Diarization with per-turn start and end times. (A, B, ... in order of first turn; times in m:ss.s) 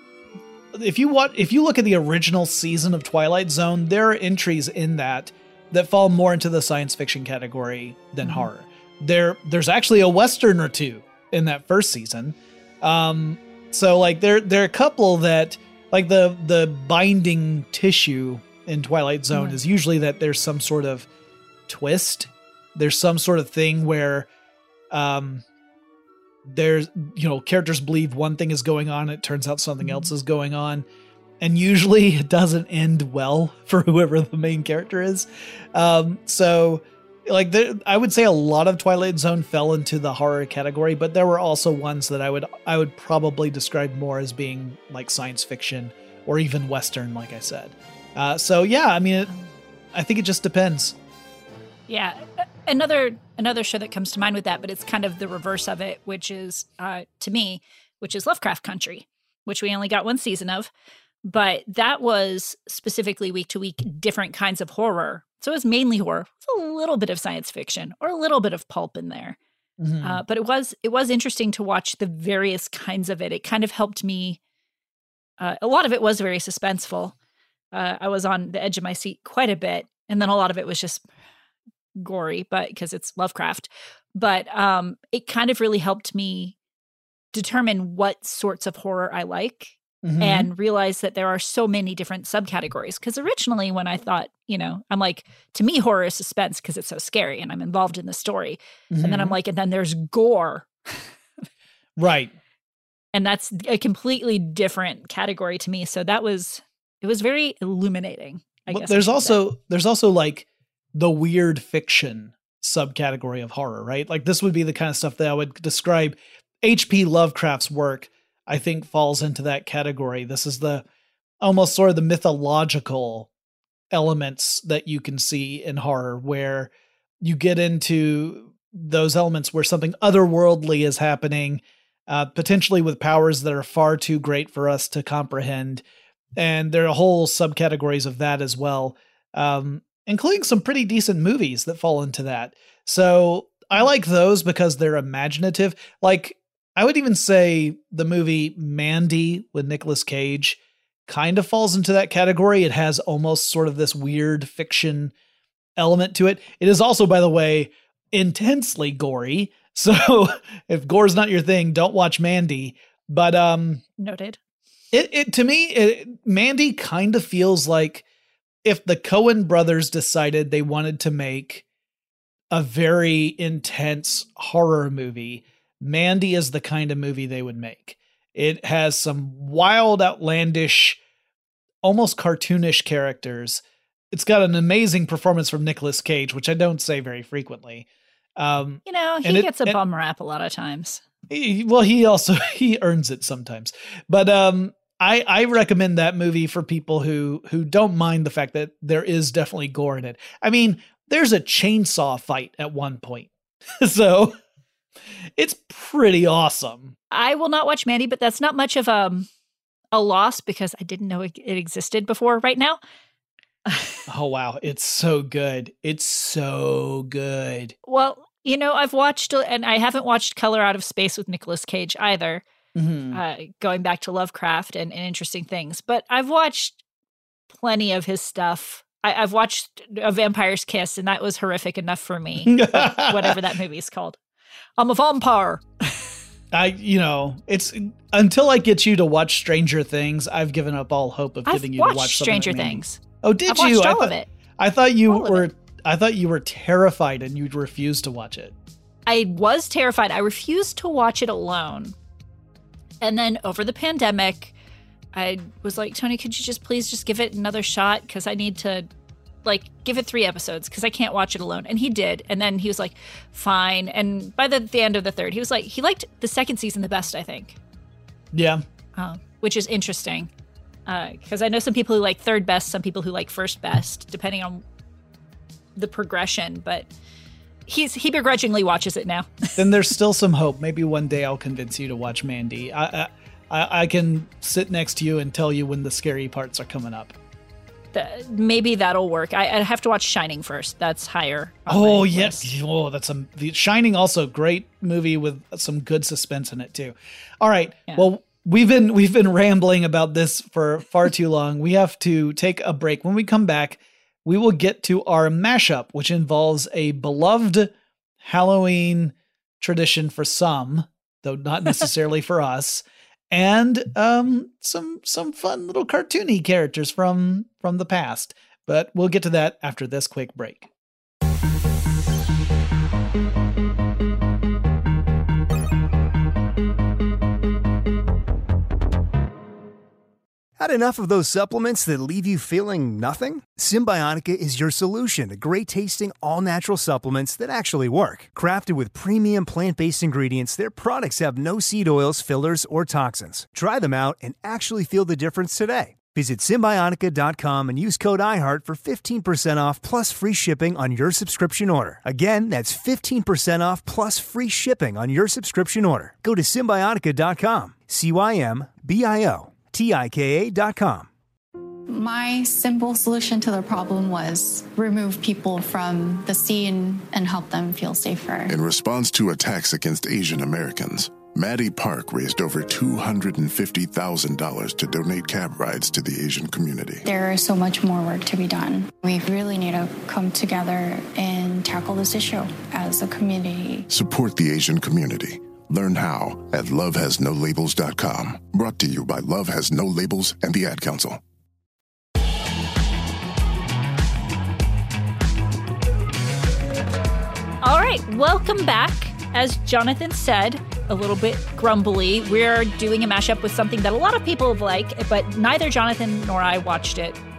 0:00.7-0:21.1 A
0:08.2-0:08.5 B
0:19.3-0:19.6 B
0:21.7-0:24.3 A
0:24.9-0:25.4 A
0:26.4-0:30.8 A
0:29.8-0:30.1 B
0:31.4-0:49.3 A
0:49.9-0:50.9 A
0:51.9-1:00.7 B
1:01.2-1:09.4 B
1:09.8-1:10.2 A
1:10.0-1:14.4 B
1:15.4-1:17.1 B
1:17.7-1:21.0 B
1:22.0-1:26.5 B
1:27.3-1:41.0 B
1:30.0-1:30.5 A
1:38.9-1:39.3 A
1:42.0-1:42.3 A
1:43.1-1:49.4 B
1:48.7-2:00.8 A
2:01.4-2:03.3 A
2:03.9-2:06.7 A
2:07.2-2:15.8 A
2:16.4-2:35.1 A
2:35.8-2:43.8 A
2:44.0-2:44.4 B
2:44.9-2:48.0 A
2:48.6-2:51.6 A
2:52.5-3:01.0 A
3:01.8-3:03.6 A
3:04.1-3:07.8 A
3:08.4-3:09.8 A
3:08.8-3:11.0 B
3:11.3-3:24.4 A
3:25.4-3:26.9 A
3:27.1-3:29.3 B
3:29.9-3:32.8 B
3:33.7-3:34.0 B
3:34.1-3:37.7 A
3:37.8-3:42.4 B
3:42.7-3:43.2 A
3:43.1-3:46.8 B
3:47.5-3:54.2 B
3:52.4-3:53.4 A
3:54.8-3:56.1 B
3:56.5-4:08.5 A
4:01.5-4:04.3 B
4:05.1-4:05.5 B
4:09.1-4:11.9 B
4:13.0-4:14.5 B
4:15.1-4:18.9 B
4:19.4-4:27.6 B
4:28.3-4:28.6 A
4:29.0-4:30.3 B
4:30.8-4:34.6 B
4:35.8-4:36.9 B
4:37.7-4:39.6 B
4:39.6-4:47.1 A
4:47.9-4:52.5 B
4:51.7-5:07.7 A
5:08.2-5:20.7 A
5:30.6-6:01.1 C
6:01.9-6:08.5 D
6:08.5-6:17.0 E
6:17.0-6:23.8 D
6:23.9-6:31.2 E
6:37.6-6:47.2 B